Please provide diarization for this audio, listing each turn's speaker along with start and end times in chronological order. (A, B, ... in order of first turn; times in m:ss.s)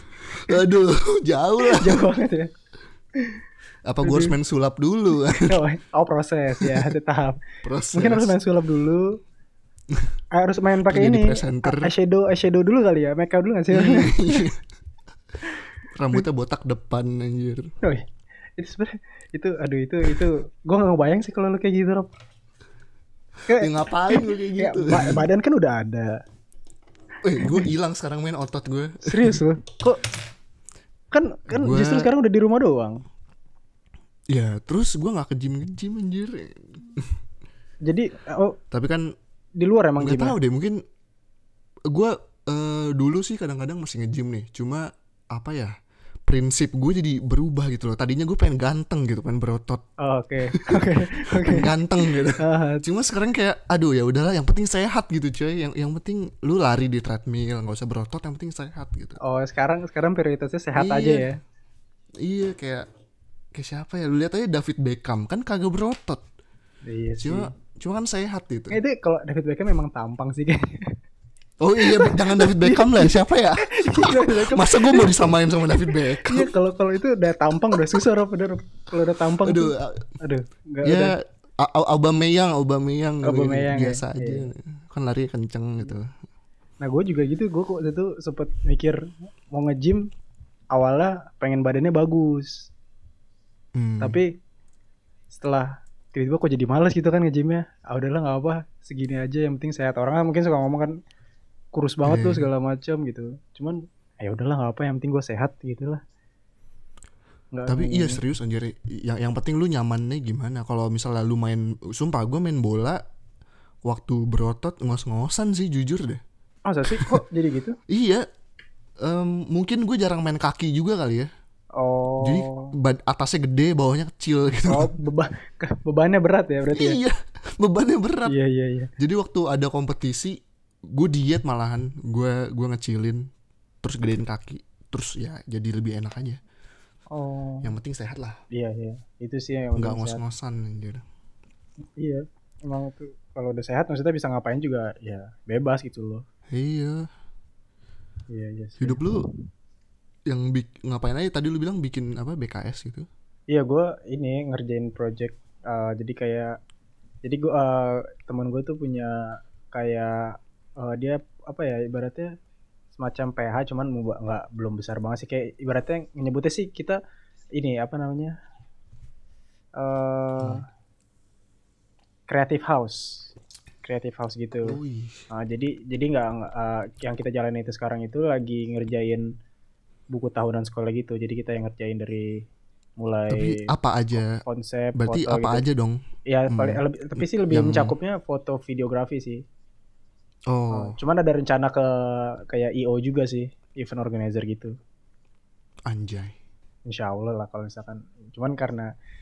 0:00.2-0:02.0 A
0:01.6-0:02.5 B
0:03.9-0:05.6 A
0:04.0-0:04.3 B
0:05.4-0:09.2 B
0:06.5-0:06.9 A
0:07.6-0:08.4 A
0:10.3-0:14.5 B
0:10.9-0:11.9 A
0:13.7-0:14.6 A
0:15.9-0:17.7 A
0:18.6-0:22.1 B
0:23.5-0:26.2 B
0:23.5-0:25.3 A
0:27.2-0:29.4 A
0:29.0-0:30.0 B
0:31.1-0:33.0 B
0:31.5-0:32.1 A
0:34.3-0:37.1 A
0:37.8-0:38.6 B
0:38.7-0:39.1 A
0:39.6-0:40.4 B
0:40.0-0:40.8 A
0:41.9-0:45.7 A
0:46.3-0:49.8 A
0:50.0-0:52.8 B
0:50.7-0:59.2 A
0:59.2-1:01.4 B
1:00.8-1:01.3 A
1:02.2-1:02.9 A
1:03.5-1:06.2 A
1:06.8-1:07.5 B
1:07.2-1:08.8 A
1:08.7-1:10.9 B
1:11.6-1:16.5 A
1:11.8-1:21.1 B
1:19.4-1:20.1 A
1:20.8-1:26.1 A
1:23.2-1:24.5 B
1:26.8-1:29.0 B
1:29.5-1:30.0 B
1:30.7-1:32.7 B
1:33.8-1:34.2 A
1:34.0-1:34.2 B
1:35.3-1:40.9 B
1:41.7-1:46.0 B
1:42.0-1:42.5 A
1:47.5-1:48.2 B
1:47.7-1:53.0 A
1:53.8-1:56.2 A
1:56.6-1:57.8 B
1:57.9-1:58.2 A
1:59.0-2:01.3 A
2:01.8-2:02.7 B
2:02.2-2:04.9 A
2:04.7-2:07.0 B
2:06.7-2:08.3 A
2:08.3-2:08.9 B
2:09.0-2:10.4 A
2:10.9-2:13.3 A
2:13.8-2:16.4 A
2:17.1-2:17.7 B
2:17.6-2:18.4 A
2:18.5-2:20.2 B
2:19.8-2:21.0 A
2:22.0-2:26.2 B
2:26.5-2:27.1 A
2:28.3-2:29.2 B
2:28.8-2:29.2 A
2:30.3-2:33.1 A
2:33.5-2:36.5 B
2:37.2-2:42.3 B
2:42.9-2:47.0 B
2:47.6-2:48.3 B
2:49.8-2:50.6 B
2:52.3-2:53.3 B
2:53.8-2:54.8 B
2:54.6-2:55.2 A
2:55.3-2:59.2 B
3:00.1-3:02.4 B
3:03.0-3:05.6 B
3:03.3-3:04.4 A
3:05.0-3:07.9 A
3:06.3-3:09.4 B
3:10.5-3:11.0 A
3:10.7-3:14.7 B
3:15.9-3:16.3 A
3:16.9-3:18.9 B